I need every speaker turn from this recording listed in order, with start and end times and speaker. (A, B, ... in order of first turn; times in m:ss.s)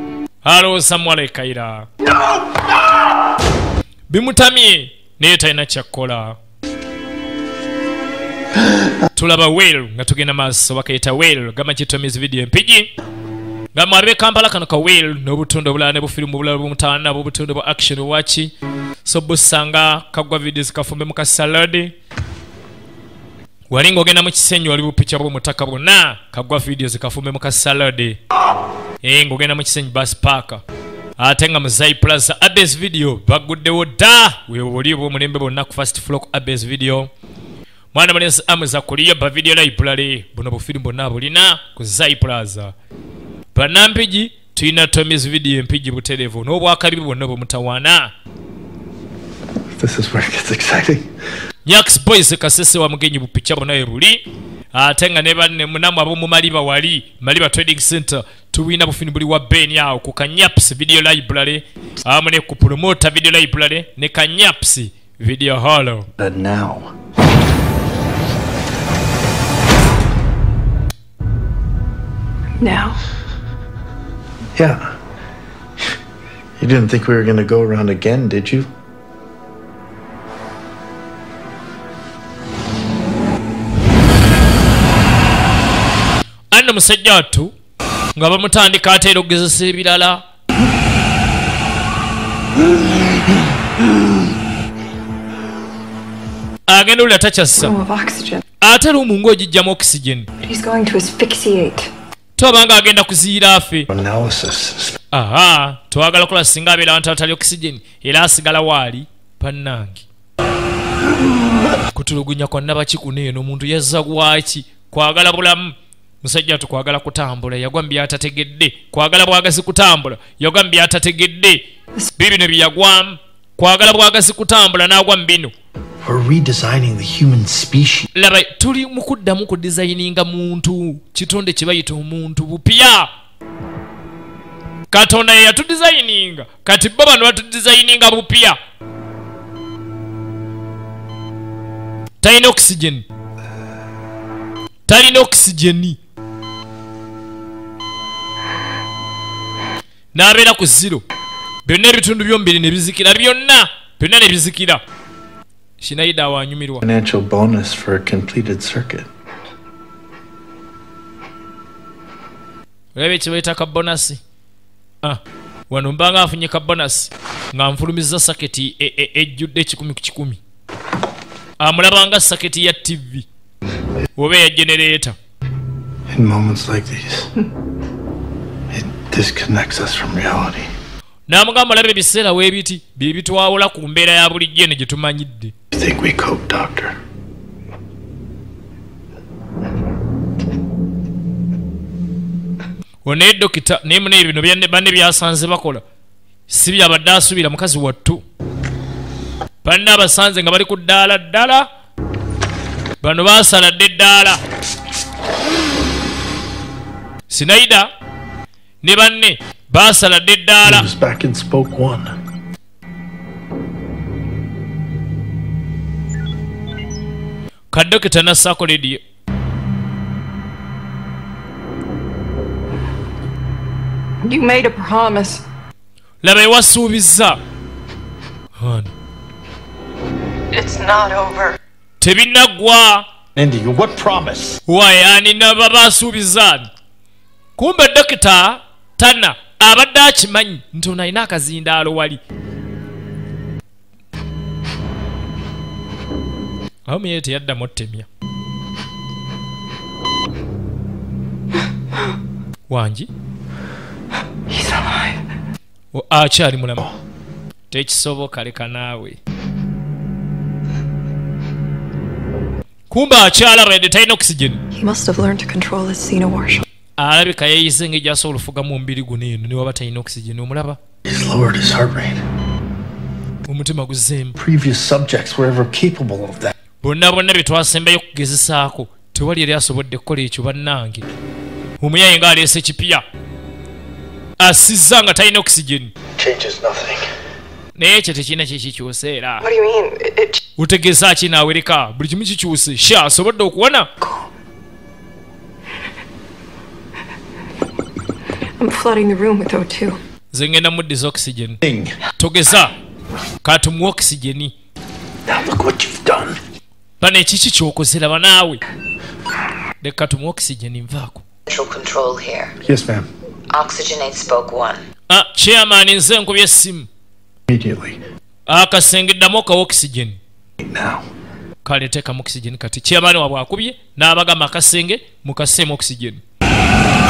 0:00.4-0:01.9 A
0:04.1-0:06.4 A
0:09.1-0:12.9 A
0:13.7-0:18.5 A
0:19.0-0:21.9 A
0:23.7-0:28.2 A
0:29.0-0:30.6 A
0:31.2-0:37.1 A
0:37.9-0:42.7 A
0:43.5-0:48.1 A
0:49.7-0:51.1 B
0:51.6-0:54.2 A
0:54.7-1:06.1 A
1:06.2-1:06.9 B
1:12.6-1:13.0 C
1:14.5-1:14.9 B
1:16.6-1:18.7 B
1:26.5-1:27.5 A
1:28.2-1:30.2 A
1:36.7-1:37.7 A
1:37.6-1:38.4 C
1:38.6-1:40.3 A
1:40.4-1:41.9 C
1:42.4-1:43.9 A
1:43.9-1:45.0 B
1:45.1-1:50.0 A
1:51.9-2:01.6 A
2:02.2-2:05.5 A
2:06.0-2:08.1 B
2:08.1-2:13.1 A
2:14.9-2:18.6 A
2:22.2-2:23.0 A
2:24.9-2:26.0 A
2:30.1-2:31.0 A
2:31.6-2:34.8 A
2:35.8-2:36.8 A
2:36.8-2:39.1 B
2:43.0-2:44.2 A
2:45.0-2:50.4 A
2:51.6-2:53.2 A
2:54.2-2:55.2 A
2:56.1-2:57.3 B
2:58.7-3:00.7 B
3:01.3-3:05.5 A
3:05.7-3:06.9 B
3:13.0-3:15.8 A
3:16.5-3:18.2 A
3:19.6-3:21.7 A
3:23.0-3:24.4 A
3:27.3-3:27.9 A
3:28.8-3:30.9 A
3:30.6-3:32.2 B
3:37.7-3:39.0 A
3:44.2-3:45.4 C
3:46.2-3:47.4 A
3:48.6-3:48.9 A
3:50.5-3:51.6 C
3:52.0-3:53.1 A
3:53.3-3:54.6 B
3:54.7-3:56.7 A
3:57.6-4:02.2 A
4:06.8-4:08.1 A
4:12.7-4:13.1 A
4:14.5-4:15.2 C
4:15.9-4:16.9 A
4:17.7-4:19.2 A
4:22.9-4:24.6 A
4:24.7-4:26.6 C
4:27.0-4:30.8 A
4:31.0-4:32.2 B
4:33.4-4:34.4 A
4:34.4-4:36.5 B
4:36.8-4:41.0 A
4:41.8-4:43.0 A
4:44.4-4:45.9 A
4:46.2-4:47.1 B
4:47.8-4:49.4 A
4:49.4-4:50.4 C
4:50.6-4:53.9 A
4:58.6-5:00.0 C
5:00.3-5:01.6 A
5:01.6-5:01.9 B
5:02.2-5:02.7 A
5:03.4-5:04.5 A
5:05.3-5:06.4 B
5:07.0-5:08.6 A
5:09.8-5:11.2 A
5:11.5-5:12.5 D
5:12.6-5:13.1 B
5:13.5-5:14.8 D
5:15.1-5:16.9 A
5:17.5-5:18.0 B
5:18.5-5:20.2 A
5:20.6-5:21.0 B
5:21.6-5:26.2 A